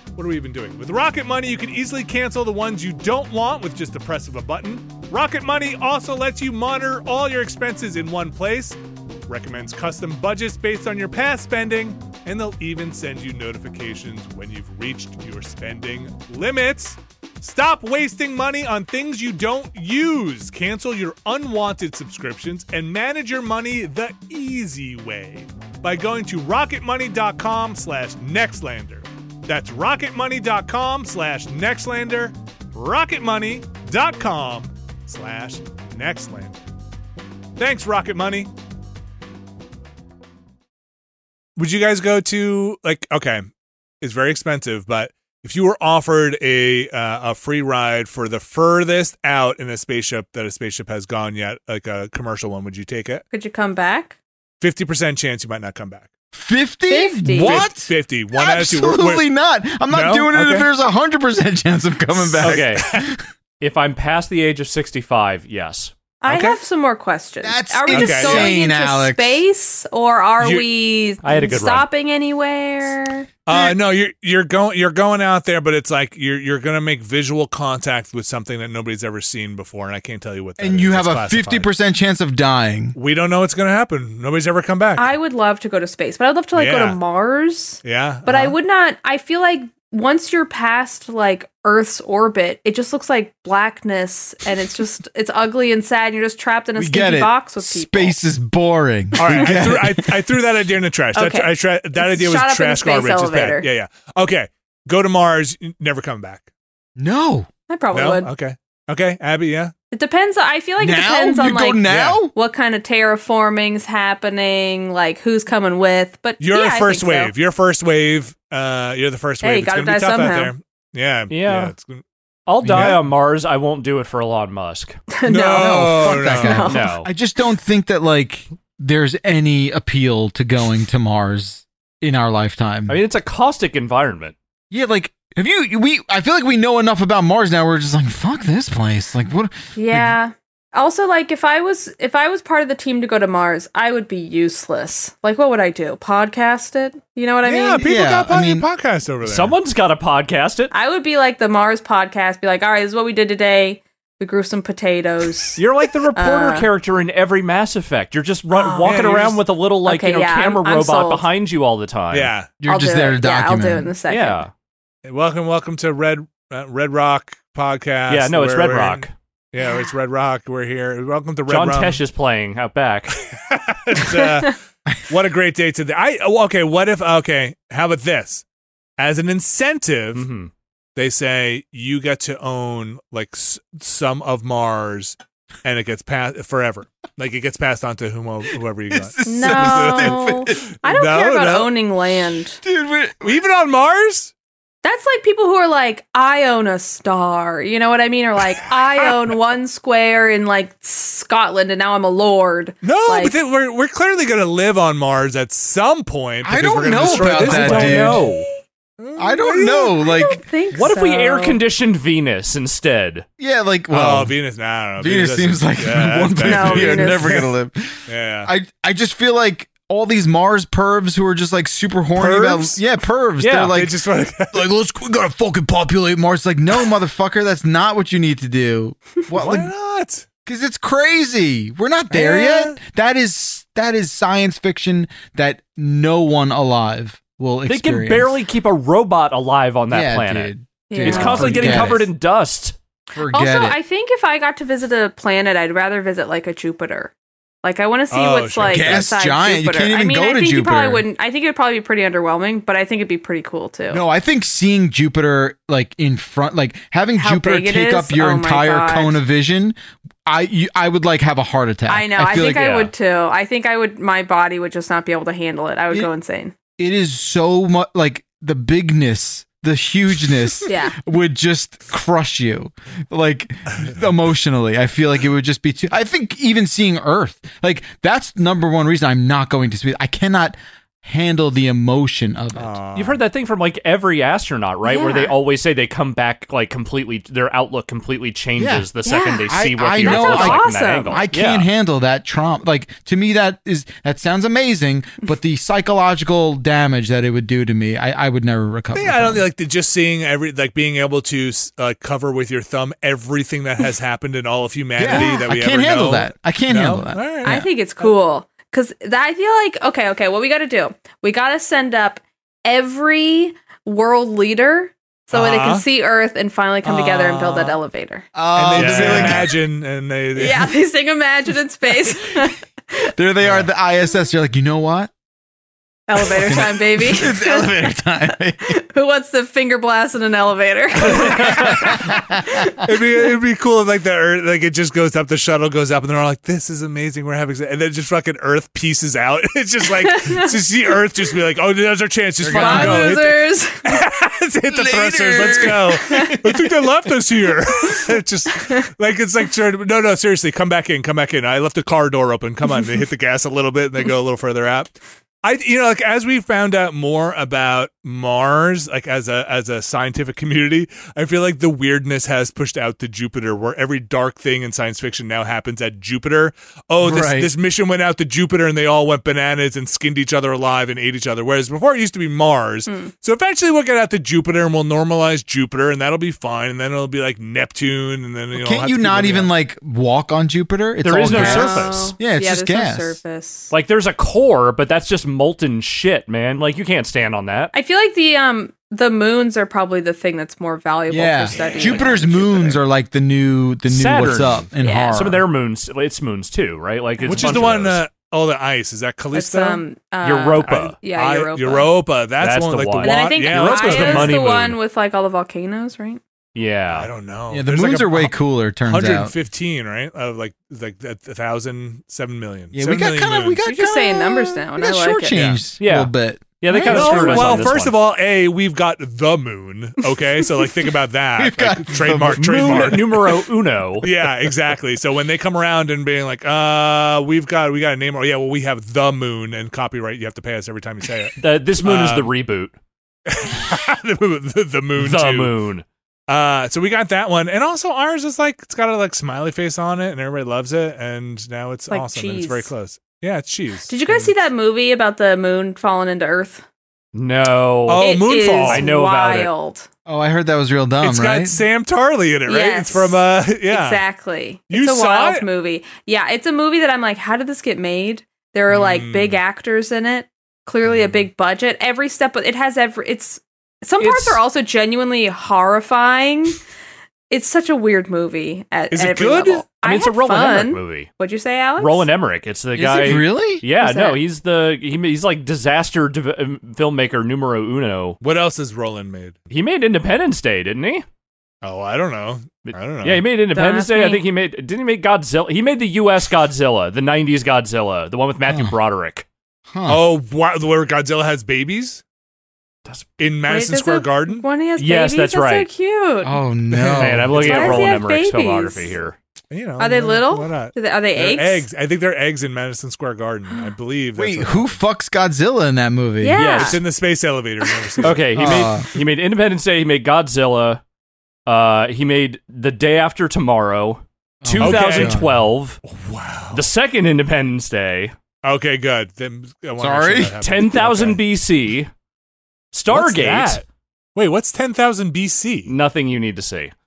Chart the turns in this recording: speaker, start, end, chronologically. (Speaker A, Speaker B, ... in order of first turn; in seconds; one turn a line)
Speaker A: 0.1-36.5
Speaker A: 37.6-38.5
Speaker A: 41.5-43.5
Speaker A: 44.0-53.2
Speaker B: 53.3-54.1
Speaker A: 54.6-56.1
Speaker C: 56.3-63.2
Speaker B: 56.9-57.7
Speaker A: 57.4-59.2
Speaker A: 59.9-60.7
Speaker A: 62.3-63.0
Speaker D: 62.4-63.0
Speaker D: 63.6-65.9
Speaker B: 66.2-73.3
Speaker A: 66.2-66.6
Speaker C: 67.4-69.4
Speaker A: 67.9-68.5
Speaker A: 70.4-70.6
Speaker D: 71.2-71.9
Speaker A: 73.5-81.7
Speaker C: 73.5-73.8
Speaker C: 80.6-83.0
Speaker A: 82.9-85.1
Speaker B: 85.0-98.2
Speaker A: 86.5-87.0
Speaker A: 87.8-88.5
Speaker C: 96.8-100.3
Speaker A: 99.2-106.5
Speaker B: 101.1-103.7
Speaker C: 107.0-107.5
Speaker B: 107.7-108.3
Speaker A: 107.9-109.7
Speaker B: 109.9-117.3
Speaker C: 110.8-112.3
Speaker A: 111.9-112.2
Speaker A: 116.4-122.0
Speaker B: 119.4-120.5
Speaker D: 121.3-121.7
Speaker D: 122.5-125.0
Speaker C: 122.6-123.0
Speaker A: 122.7-123.0
Speaker B: 125.1-127.0
Speaker A: 125.3-126.7
Speaker C: 125.5-133.0
Speaker D: 126.6-127.1
Speaker D: 132.9-134.4
Speaker C: 134.7-140.1
Speaker B: 139.8-147.8
Speaker A: 147.4-149.5
Speaker C: 147.8-148.7
Speaker D: 149.2-150.7
Speaker B: 150.7-155.6
Speaker D: 155.6-162.3
Speaker B: 156.1-156.7
Speaker B: 158.5-159.0
Speaker A: 158.8-159.4
Speaker B: 159.8-161.3
Speaker A: 162.1-162.5
Speaker C: 162.6-163.9
Speaker B: 162.7-164.4
Speaker D: 164.1-164.5
Speaker A: 165.1-172.0
Speaker D: 168.1-169.1
Speaker D: 171.5-173.2
Speaker A: 173.2-178.4
Speaker A: 179.0-180.3
Speaker D: 180.1-180.5
Speaker A: 180.9-190.3
Speaker C: 188.9-190.7
Speaker B: 189.2-192.6
Speaker A: 190.8-191.7
Speaker C: 192.6-193.4
Speaker A: 193.2-194.3
Speaker B: 194.8-203.3
Speaker A: 202.8-208.2
Speaker C: 206.4-208.2
Speaker D: 206.9-208.4
Speaker B: 208.1-208.6
Speaker A: 209.0-209.5
Speaker C: 209.2-210.5
Speaker B: 209.3-211.6
Speaker D: 210.7-213.3
Speaker C: 213.4-214.4
Speaker A: 213.9-217.4
Speaker C: 215.0-224.0
Speaker B: 216.4-217.4
Speaker A: 218.1-218.5
Speaker A: 222.2-222.8
Speaker D: 223.4-223.8
Speaker A: 223.6-224.7
Speaker C: 224.5-229.7
Speaker A: 229.3-230.3
Speaker C: 230.4-238.3
Speaker A: 232.1-232.8
Speaker D: 237.7-240.5
Speaker C: 239.9-242.1
Speaker B: 240.9-241.9
Speaker D: 241.0-242.8
Speaker A: 241.2-241.9
Speaker C: 243.1-243.8
Speaker B: 243.3-254.0
Speaker A: 248.1-249.1
Speaker C: 248.7-251.0
Speaker C: 253.9-262.7
Speaker B: 257.1-259.2
Speaker B: 261.9-266.5
Speaker D: 262.4-262.9
Speaker C: 266.8-282.8
Speaker B: 270.6-270.9
Speaker A: 282.6-283.2
Speaker D: 282.9-291.7
Speaker B: 284.8-285.3
Speaker C: 288.6-288.9
Speaker B: 289.0-291.2
Speaker C: 289.5-299.4
Speaker A: 298.9-308.1
Speaker C: 305.0-307.7
Speaker B: 305.1-305.4
Speaker B: 307.4-318.2
Speaker A: 315.3-315.8
Speaker A: 316.8-317.8
Speaker C: 318.3-319.6
Speaker A: 318.6-320.7
Speaker D: 318.7-319.4
Speaker B: 320.3-323.1
Speaker C: 323.1-325.1
Speaker A: 323.4-323.7
Speaker B: 326.1-328.0
Speaker C: 326.1-328.7
Speaker B: 328.6-332.8
Speaker A: 331.1-332.1
Speaker C: 331.5-332.6
Speaker A: 332.8-379.5
Speaker B: 340.1-340.5
Speaker C: 342.4-343.2
Speaker B: 342.5-343.9
Speaker C: 344.7-346.6
Speaker B: 346.1-346.4
Speaker C: 367.0-367.5
Speaker C: 378.5-383.2
Speaker D: 381.0-382.1
Speaker B: 381.3-383.7
Speaker D: 383.7-387.7
Speaker B: 387.7-392.8
Speaker C: 391.1-395.4
Speaker D: 393.9-398.0
Speaker B: 394.8-395.1
Speaker A: 397.2-399.8
Speaker B: 399.3-401.9
Speaker D: 400.2-400.9
Speaker A: 400.7-404.4
Speaker D: 402.4-404.8
Speaker B: 403.0-406.2
Speaker D: 406.6-407.1
Speaker A: 406.9-408.3
Speaker C: 407.5-409.3
Speaker A: 408.9-413.6
Speaker C: 412.7-417.7
Speaker B: 413.6-415.4
Speaker A: 415.3-415.6
Speaker D: 415.8-417.9
Speaker B: 416.7-417.6
Speaker A: 416.9-423.5
Speaker C: 421.4-423.0
Speaker D: 422.4-424.1
Speaker A: 424.0-432.3
Speaker D: 431.4-432.7
Speaker A: 433.3-435.5
Speaker D: 435.0-435.8
Speaker A: 436.3-444.3
Speaker B: 441.9-442.7
Speaker B: 443.9-446.6
Speaker D: 447.1-448.1
Speaker A: 447.9-448.9
Speaker B: 448.0-449.9
Speaker D: 448.6-449.5
Speaker C: 450.1-451.6
Speaker A: 451.0-454.0
Speaker B: 452.5-466.6
Speaker A: 454.7-455.4
Speaker A: 458.7-459.4
Speaker A: 460.9-461.2
Speaker D: 464.0-464.4
Speaker B: 467.3-472.1
Speaker A: 468.9-469.6
Speaker D: 469.8-471.1
Speaker D: 471.8-478.2
Speaker C: 472.7-473.6
Speaker B: 473.8-474.2
Speaker A: 478.2-479.4
Speaker D: 479.5-481.1
Speaker A: 481.6-483.2
Speaker D: 482.6-489.3
Speaker B: 483.5-484.2
Speaker C: 488.5-488.8
Speaker C: 489.7-490.1
Speaker A: 489.9-492.0
Speaker A: 493.2-494.4
Speaker B: 493.5-496.4
Speaker D: 494.8-495.7
Speaker C: 496.2-497.4
Speaker A: 496.8-498.0
Speaker D: 496.9-499.2
Speaker B: 497.4-498.9
Speaker A: 499.5-504.8
Speaker B: 499.8-501.7
Speaker C: 504.2-506.5
Speaker B: 506.2-506.8
Speaker D: 506.3-506.8
Speaker A: 506.6-508.7
Speaker B: 507.8-508.0
Speaker D: 508.0-510.8
Speaker C: 508.3-508.9
Speaker D: 511.4-515.8
Speaker C: 514.4-515.3
Speaker A: 514.6-515.2
Speaker A: 515.9-516.7
Speaker D: 516.5-518.1
Speaker A: 518.4-521.2
Speaker C: 519.8-520.4
Speaker D: 520.4-521.9
Speaker D: 522.7-523.6
Speaker A: 522.9-523.6
Speaker A: 524.1-525.7
Speaker D: 525.7-526.7